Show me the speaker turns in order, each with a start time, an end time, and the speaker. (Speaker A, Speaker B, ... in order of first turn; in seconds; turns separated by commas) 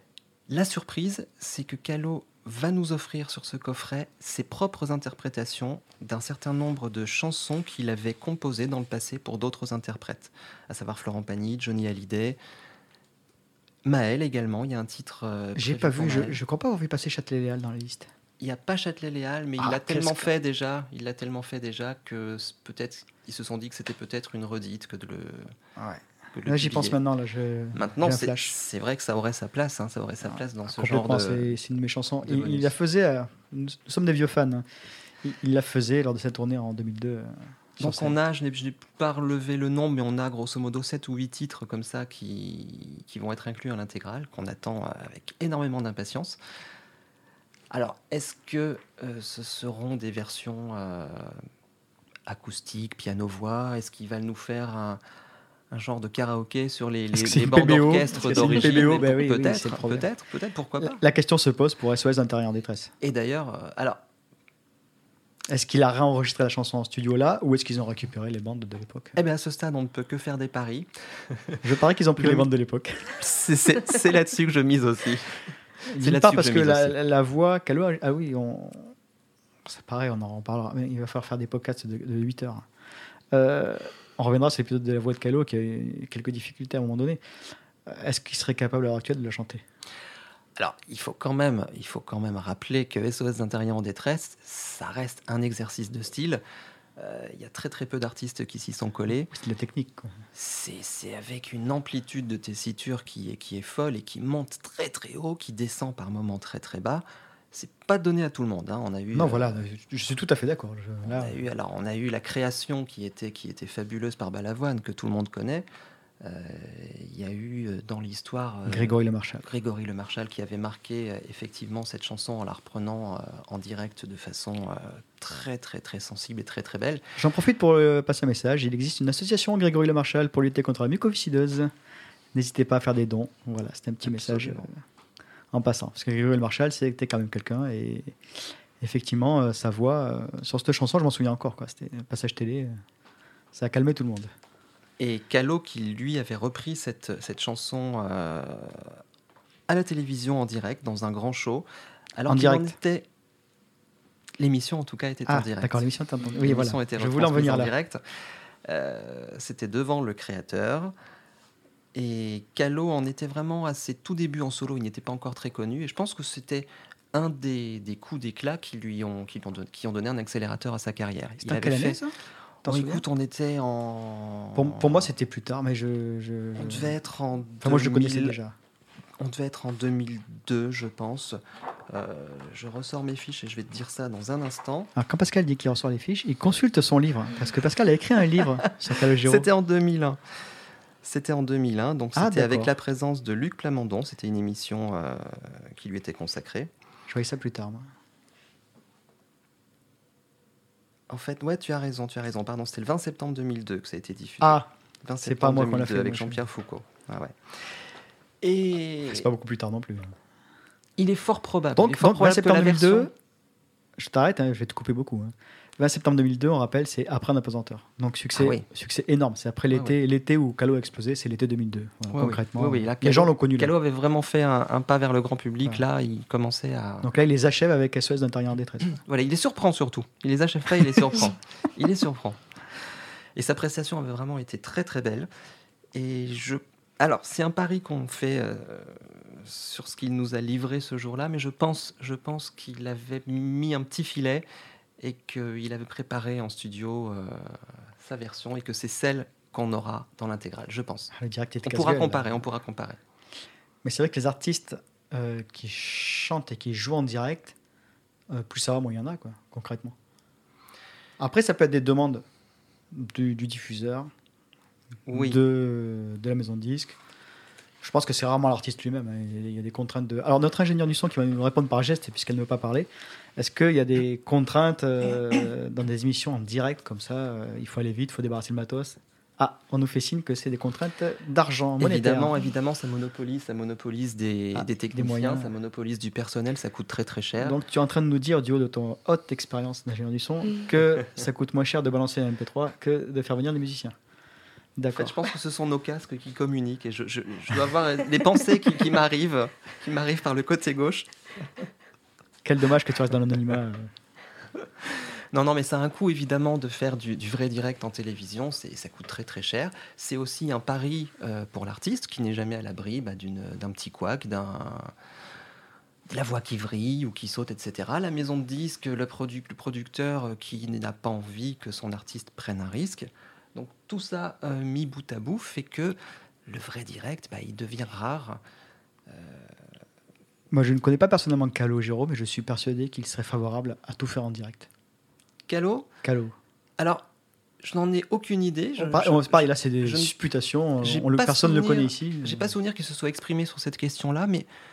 Speaker A: 0.5-12.4, Speaker A: 13.8-16.4, Speaker B: 15.6-18.1, Speaker A: 18.4-25.6, Speaker B: 19.6-20.3, Speaker B: 25.8-28.5, Speaker A: 26.3-27.0, Speaker A: 27.7-31.6, Speaker B: 30.7-34.6, Speaker A: 32.2-32.7, Speaker B: 35.2-38.1, Speaker A: 37.8-46.4, Speaker A: 47.7-51.4, Speaker A: 52.3-55.0, Speaker A: 55.7-61.0, Speaker B: 57.1-60.1, Speaker B: 60.8-62.9, Speaker A: 63.0-64.0, Speaker B: 65.5-69.2, Speaker A: 69.2-71.6, Speaker B: 71.6-73.2, Speaker A: 72.2-72.5, Speaker A: 73.2-75.4, Speaker B: 75.9-79.0, Speaker A: 76.0-77.0, Speaker B: 79.7-82.7, Speaker B: 83.3-87.2, Speaker B: 87.9-89.6, Speaker A: 90.6-96.4, Speaker A: 97.0-99.3, Speaker B: 99.2-100.2, Speaker A: 100.3-109.6, Speaker B: 109.1-111.4, Speaker A: 111.0-115.7, Speaker A: 116.2-127.0, Speaker B: 118.7-119.5, Speaker B: 127.2-131.7, Speaker B: 132.3-134.8, Speaker A: 134.0-134.7, Speaker B: 135.5-138.2, Speaker B: 138.8-142.8, Speaker B: 143.5-144.3, Speaker A: 145.0-149.0, Speaker A: 149.7-153.1, Speaker B: 152.3-152.8, Speaker A: 154.4-155.8, Speaker B: 155.3-157.7, Speaker A: 156.4-158.0, Speaker A: 158.7-160.9, Speaker A: 161.9-172.0, Speaker B: 171.4-172.1, Speaker A: 172.6-175.1, Speaker B: 172.7-173.0, Speaker B: 174.6-177.0, Speaker A: 176.6-178.4, Speaker B: 177.6-178.5, Speaker A: 179.2-181.4, Speaker A: 181.9-184.9, Speaker B: 184.9-189.5, Speaker A: 189.2-190.2, Speaker A: 191.0-196.7, Speaker B: 192.2-192.7, Speaker B: 197.1-197.9, Speaker A: 201.1-209.3, Speaker B: 204.4-204.7, Speaker B: 205.2-206.4, Speaker B: 209.1-210.1, Speaker A: 211.0-213.1, Speaker B: 211.8-213.1, Speaker B: 214.0-223.7, Speaker A: 218.3-218.7, Speaker A: 219.7-220.0, Speaker A: 222.1-227.1, Speaker B: 227.0-229.0, Speaker A: 228.9-232.4, Speaker A: 233.3-235.3, Speaker A: 235.9-244.4, Speaker A: 245.0-251.1, Speaker B: 251.1-252.4, Speaker A: 251.7-253.0, Speaker B: 253.8-257.6, Speaker B: 258.3-259.9, Speaker B: 261.2-262.2, Speaker B: 262.9-264.1, Speaker A: 265.1-265.4, Speaker B: 265.1-267.0, Speaker B: 267.8-282.4, Speaker A: 281.8-287.6, Speaker B: 284.6-285.5, Speaker B: 287.4-293.9, Speaker B: 294.8-295.2, Speaker A: 294.9-301.1, Speaker B: 302.4-303.9, Speaker A: 304.8-314.9, Speaker A: 316.1-328.4, Speaker A: 329.1-329.6, Speaker B: 330.5-334.7, Speaker A: 335.5-335.9, Speaker B: 336.0-336.4, Speaker A: 336.8-337.1, Speaker A: 337.6-340.1, Speaker B: 338.8-342.5, Speaker A: 340.8-344.5